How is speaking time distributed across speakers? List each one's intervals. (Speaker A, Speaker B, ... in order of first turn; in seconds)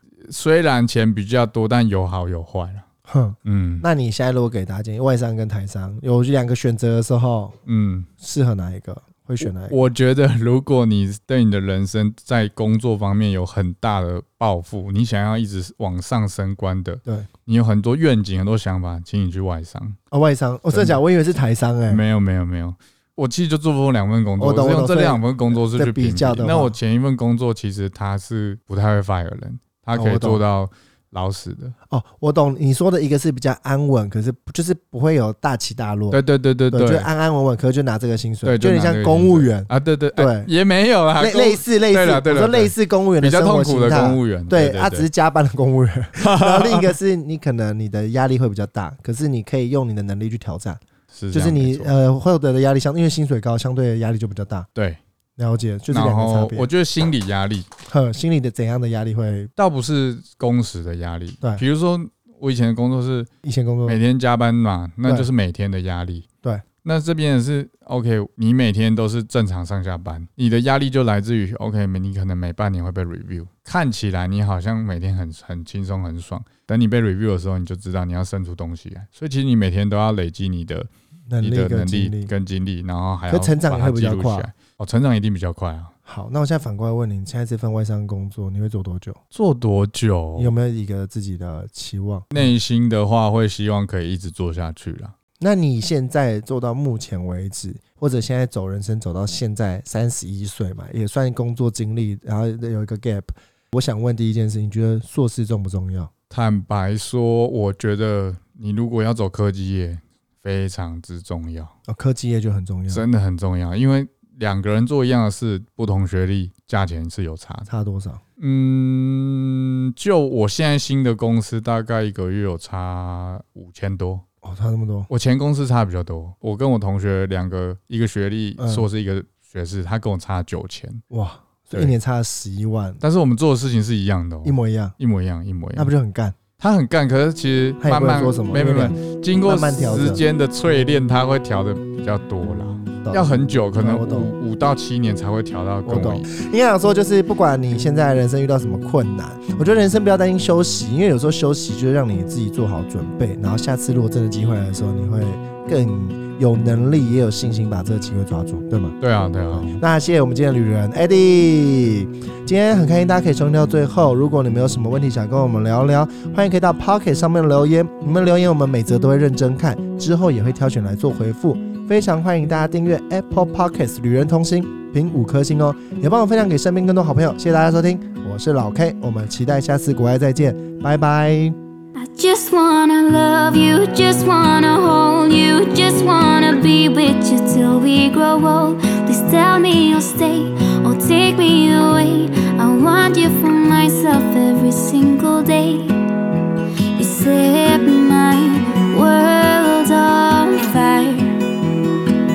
Speaker A: 0.2-2.8, 3.4-3.8, 7.7-8.1, 9.4-20.0, 20.7-21.0, 21.9-31.7, 36.1-37.1, 38.4-45.1, 46.2-46.9, 51.1-51.9, 55.9-57.7, 59.6-63.3, 63.8-66.2, 66.8-80.9, 81.4-85.9, 89.3-90.5, 92.3-95.1, 106.3-111.7, 112.9-117.7, 118.4-124.2, 125.1-131.0, 133.0-135.9, 136.6-146.2, 159.0-159.8
Speaker B: 3.1-7.5, 8.2-9.8, 20.1-22.0, 24.4-26.7, 29.9-30.4, 31.9-36.2, 36.7-40.5, 41.2-50.8, 51.3-54.7, 55.4-56.7, 57.9-59.5, 63.4-64.0, 81.3-82.3, 83.3-84.5, 86.0-89.2, 90.4-92.5, 95.4-106.1, 111.9-113.0, 117.7-118.2, 124.4-125.1, 128.6-128.8, 131.1-133.0, 134.4-134.9, 135.8-136.3, 137.8-140.2, 143.0-144.3, 145.8-158.9, 159.5-181.6
Speaker C: 181.9-195.9, 196.9-201.4